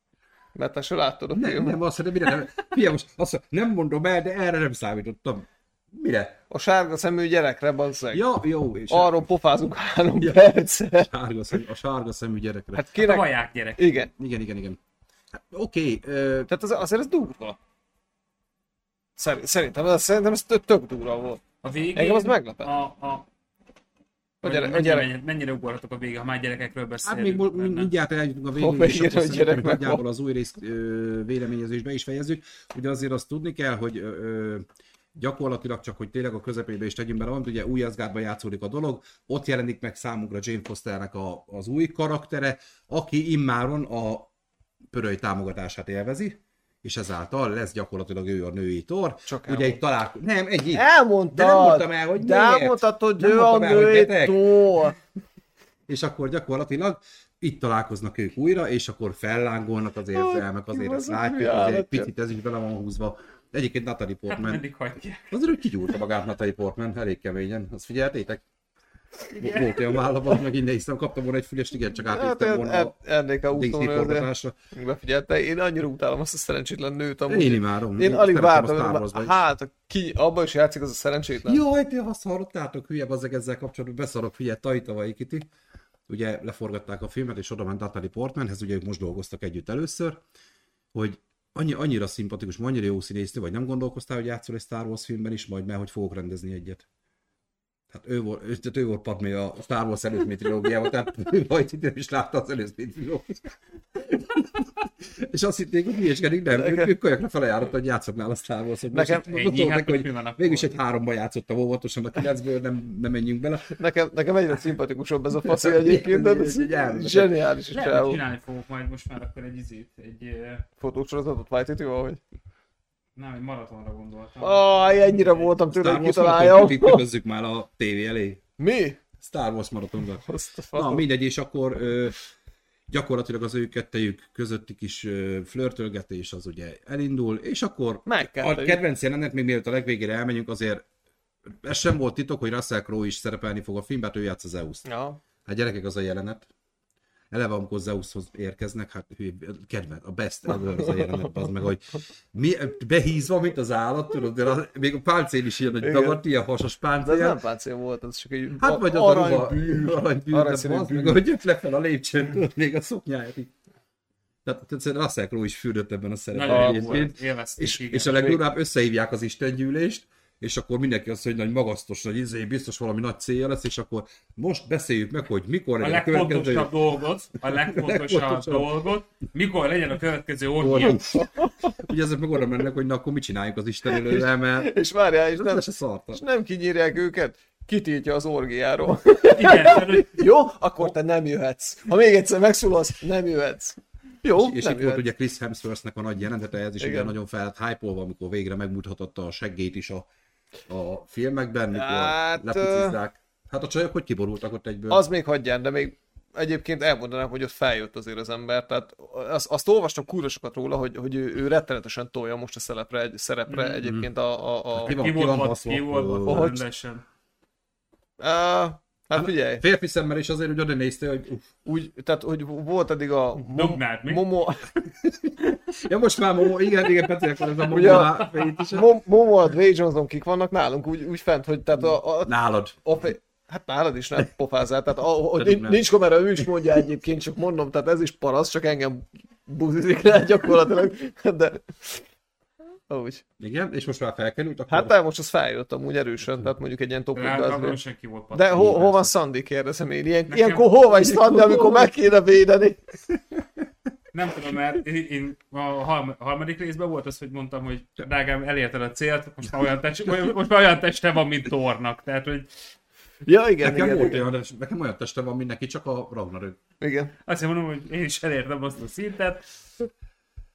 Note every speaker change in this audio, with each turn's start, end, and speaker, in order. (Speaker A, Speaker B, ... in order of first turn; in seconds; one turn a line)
Speaker A: 0.6-1.8
Speaker B: 1.3-6.4
Speaker A: 6.5-8.2
Speaker B: 8.1-9.2
Speaker A: 8.9-11.1
Speaker B: 11.0-12.8
Speaker A: 12.7-14.1
Speaker C: 13.0-13.8
Speaker B: 14.2-14.8
Speaker B: 15.3-16.5
Speaker A: 16.5-17.6
Speaker A: 19.2-21.4
Speaker C: 21.6-23.3
Speaker A: 21.9-22.7
Speaker A: 24.4-25.1
Speaker C: 24.4-27.9
Speaker B: 27.0-44.3
Speaker A: 28.6-30.0
Speaker B: 44.9-54.9
Speaker A: 49.3-49.8
Speaker A: 50.7-55.0
Speaker B: 55.9-64.6
Speaker A: 60.1-62.1
Speaker C: 64.3-65.3
Speaker B: 65.3-68.4
Speaker C: 69.3-70.0
Speaker B: 69.3-72.9
Speaker A: 72.0-81.6
Speaker B: 73.5-74.5
Speaker B: 77.3-79.4
Speaker B: 81.5-85.5
Speaker B: 86.1-90.2
Speaker B: 90.9-96.8
Speaker B: 97.9-113.7
Speaker A: 106.5-106.9
Speaker A: 108.9-109.2
Speaker C: 109.2-110.7
Speaker A: 113.7-118.2
Speaker B: 115.4-117.3
Speaker C: 117.7-120.7
Speaker A: 120.8-122.2
Speaker C: 123.2-125.5
Speaker A: 124.4-127.0
Speaker B: 125.7-128.4
Speaker A: 128.6-129.0
Speaker B: 129.2-132.2
Speaker A: 130.2-131.1
Speaker B: 132.9-140.8
Speaker A: 138.1-138.8
Speaker B: 141.6-144.9
Speaker A: 144.8-145.2
Speaker B: 145.4-146.5
Speaker B: 147.3-157.4
Speaker A: 150.7-151.3
Speaker A: 155.8-156.2
Speaker A: 157.0-161.2
Speaker B: 158.6-163.5
Speaker B: 164.4-176.7
Speaker C: 166.3-168.4
Speaker A: 166.4-167.1
Speaker C: 175.8-181.0
Speaker B: 177.5-178.7
Speaker B: 180.6-184.8
Speaker A: 181.1-181.8
Speaker A: 183.9-195.0
Speaker B: 185.3-186.2
Speaker C: 189.3-190.3
Speaker B: 194.3-200.1
Speaker A: 196.8-197.2
Speaker B: 200.7-205.1
Speaker A: 201.7-203.0
Speaker A: 204.9-215.0
Speaker C: 213.5-213.9
Speaker B: 214.8-216.5
Speaker C: 214.8-217.0
Speaker A: 216.2-216.7
Speaker A: 218.2-219.6
Speaker B: 219.1-221.5
Speaker A: 221.7-224.7
Speaker C: 223.4-224.2
Speaker B: 225.0-228.9
Speaker A: 227.6-242.1
Speaker C: 227.8-228.7
Speaker B: 232.2-232.8
Speaker B: 235.3-236.5
Speaker A: 242.9-243.2
Speaker B: 243.4-244.9
Speaker A: 244.7-247.8
Speaker C: 247.2-249.1
Speaker A: 248.3-252.8
Speaker C: 250.3-250.7
Speaker B: 250.9-251.9
Speaker C: 254.1-262.5
Speaker A: 263.2-264.2
Speaker B: 263.6-266.6
Speaker A: 266.8-267.1
Speaker C: 267.3-269.5